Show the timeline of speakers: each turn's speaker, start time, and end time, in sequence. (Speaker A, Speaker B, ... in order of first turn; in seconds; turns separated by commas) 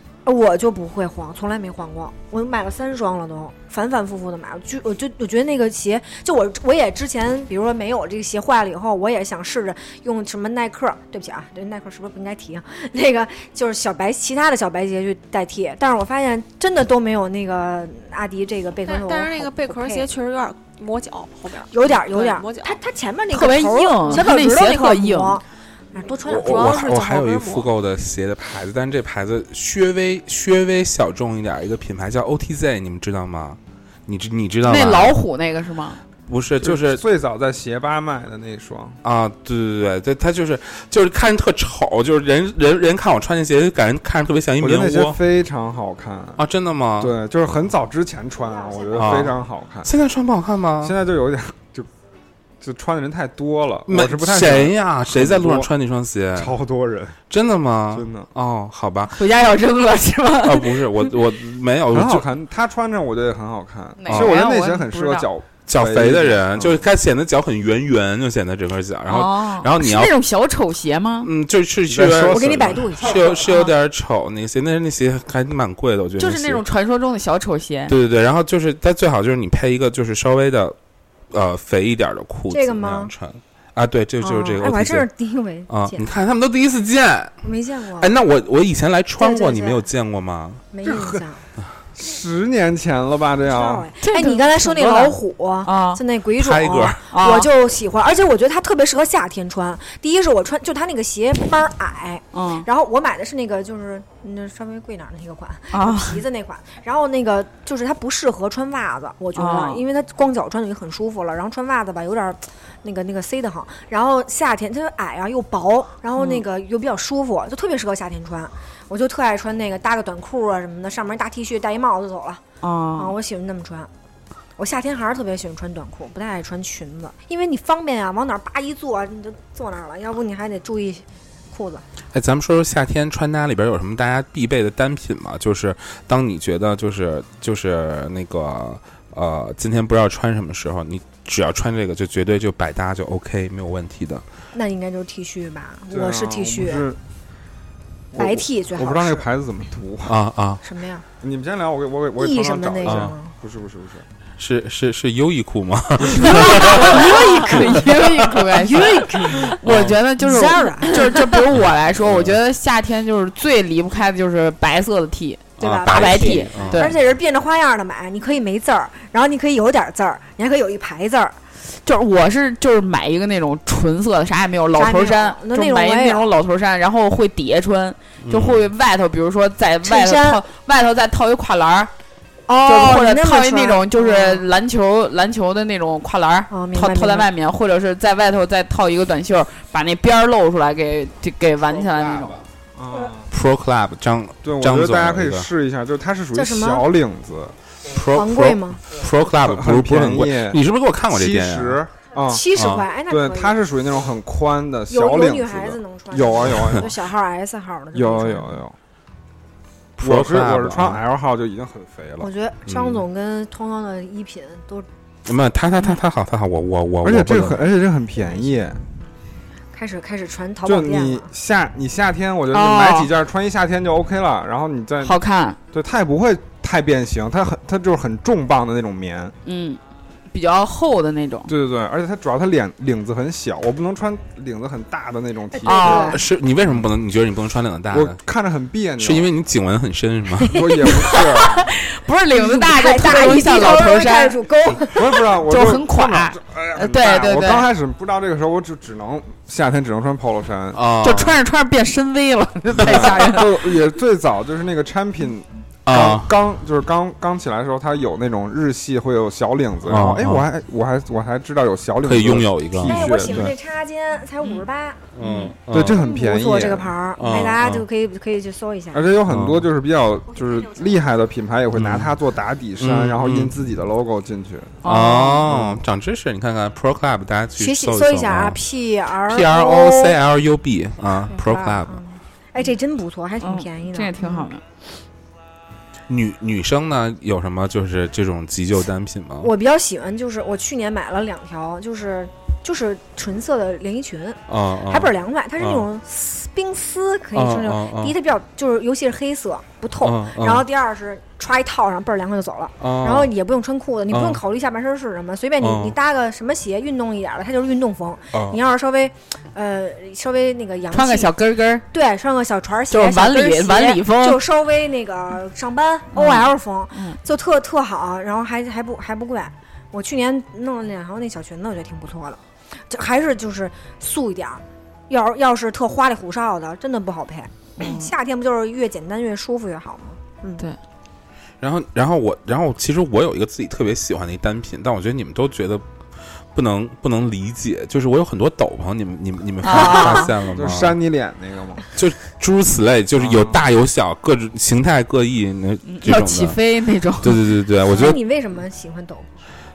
Speaker A: 0.2-20.1, Speaker B: 18.9-22.8, Speaker A: 21.7-26.7, Speaker C: 23.3-25.4, Speaker D: 26.3-35.2, Speaker B: 26.3-27.7, Speaker C: 34.6-36.0, Speaker D: 36.3-37.0, Speaker E: 36.6-39.0, Speaker D: 39.0-45.2, Speaker E: 44.6-46.4, Speaker D: 46.4-47.1, Speaker E: 47.0-49.9, Speaker A: 48.4-49.3, Speaker D: 48.9-51.0, Speaker E: 50.8-51.9, Speaker E: 52.6-55.7, Speaker D: 53.9-56.6, Speaker E: 56.4-57.2, Speaker D: 57.3-59.2, Speaker E: 57.9-58.3, Speaker C: 59.1-61.1, Speaker D: 60.4-62.3, Speaker E: 61.9-66.8, Speaker C: 64.0-65.3, Speaker D: 64.1-64.4, Speaker D: 65.7-70.1, Speaker C: 69.1-71.3, Speaker D: 71.2-76.6, Speaker E: 71.9-73.0, Speaker A: 72.3-73.7, Speaker C: 76.2-77.9, Speaker D: 77.9-80.8, Speaker D: 81.3-85.1, Speaker A: 82.5-83.1, Speaker A: 84.2-86.1, Speaker D: 85.7-87.3, Speaker A: 87.4-88.1, Speaker D: 88.0-90.7, Speaker A: 89.2-89.8, Speaker A: 90.7-91.4, Speaker E: 90.8-91.2, Speaker E: 91.9-93.9, Speaker A: 93.4-122.4, Speaker C: 94.0-96.0, Speaker D: 96.4-97.0, Speaker C: 97.1-97.5, Speaker C: 102.3-102.7, Speaker C: 105.7-106.2, Speaker C: 109.3-109.8, Speaker C: 116.2-116.4, Speaker C: 122.6-123.1, Speaker A: 123.0-123.9, Speaker A: 124.6-131.8, Speaker D: 132.1-144.2, Speaker A: 144.5-146.9, Speaker E: 145.9-147.0, Speaker E: 148.1-150.2, Speaker A: 148.1-149.3, Speaker D: 150.1-150.6, Speaker A: 150.6-151.0, Speaker E: 151.2-154.0, Speaker A: 152.2-153.3, Speaker D: 152.8-153.1, Speaker D: 154.4-158.4, Speaker C: 156.1-166.9, Speaker A: 156.7-157.8, Speaker A: 158.5-159.6, Speaker D: 159.6-160.0, Speaker A: 160.2-161.3, Speaker D: 161.5-162.4, Speaker D: 165.6-166.9, Speaker A: 165.6-171.4, Speaker C: 171.8-181.9, Speaker A: 174.7-176.3, Speaker D: 178.2-178.7, Speaker A: 179.8-180.4, Speaker A: 182.5-184.5, Speaker C: 182.7-192.4, Speaker A: 186.5-187.3, Speaker D: 191.7-192.4, Speaker E: 192.8-193.3, Speaker D: 193.3-195.5, Speaker E: 194.4-197.5, Speaker A: 196.3-196.8, Speaker D: 197.9-201.8, Speaker A: 198.1-198.8, Speaker E: 199.4-202.5, Speaker A: 202.3-203.6, Speaker D: 202.5-202.9, Speaker E: 203.1-206.9, Speaker A: 204.9-208.6, Speaker E: 207.9-208.7, Speaker D: 210.0-211.0, Speaker E: 210.0-212.3, Speaker A: 212.2-214.9, Speaker D: 212.7-213.0, Speaker D: 215.2-217.6, Speaker E: 217.0-218.8, Speaker A: 219.7-221.3, Speaker E: 220.6-225.2, Speaker C: 222.5-223.1, Speaker C: 225.0-225.6, Speaker E: 225.7-229.3, Speaker C: 229.4-229.8, Speaker C: 230.3-231.5, Speaker E: 231.5-236.8, Speaker A: 235.5-236.2, Speaker C: 235.6-236.2, Speaker D: 236.1-238.2, Speaker E: 237.9-239.3, Speaker D: 239.0-240.6, Speaker A: 240.4-241.2, Speaker E: 240.4-241.7, Speaker C: 241.0-244.4, Speaker A: 242.3-245.3, Speaker E: 244.9-250.8, Speaker C: 245.5-247.7, Speaker D: 250.7-251.4, Speaker C: 251.0-253.5, Speaker E: 252.8-263.5, Speaker D: 252.8-253.1, Speaker D: 255.8-256.3, Speaker D: 259.9-260.4, Speaker D: 262.0-263.2, Speaker A: 262.8-265.1, Speaker D: 265.1-266.0, Speaker C: 265.2-265.5, Speaker E: 265.7-267.0, Speaker A: 265.9-269.1, Speaker D: 267.1-267.9, Speaker E: 268.9-274.8, Speaker D: 269.3-269.7, Speaker D: 271.7-272.1, Speaker D: 272.8-273.5, Speaker C: 274.8-275.4, Speaker D: 274.8-278.6, Speaker E: 275.5-275.8, Speaker A: 277.6-280.2, Speaker D: 279.2-282.0, Speaker A: 281.3-284.5, Speaker C: 283.4-284.6, Speaker D: 286.1-289.5, Speaker A: 289.4-311.3, Speaker D: 294.5-295.9, Speaker D: 297.3-298.1, Speaker D: 300.0-300.6, Speaker D: 302.8-303.3, Speaker D: 304.1-304.4, Speaker D: 305.6-305.9, Speaker D: 308.3-308.6, Speaker C: 310.9-311.8, Speaker A: 311.9-330.6, Speaker C: 312.9-314.4, Speaker C: 316.1-317.2, Speaker C: 327.8-328.1, Speaker D: 331.6-335.8, Speaker D: 336.5-341.0, Speaker C: 339.6-340.3, Speaker E: 340.4-341.9, Speaker D: 341.9-346.6, Speaker E: 343.2-343.6, Speaker C: 345.8-347.5, Speaker D: 347.2-348.2, Speaker A: 347.9-349.3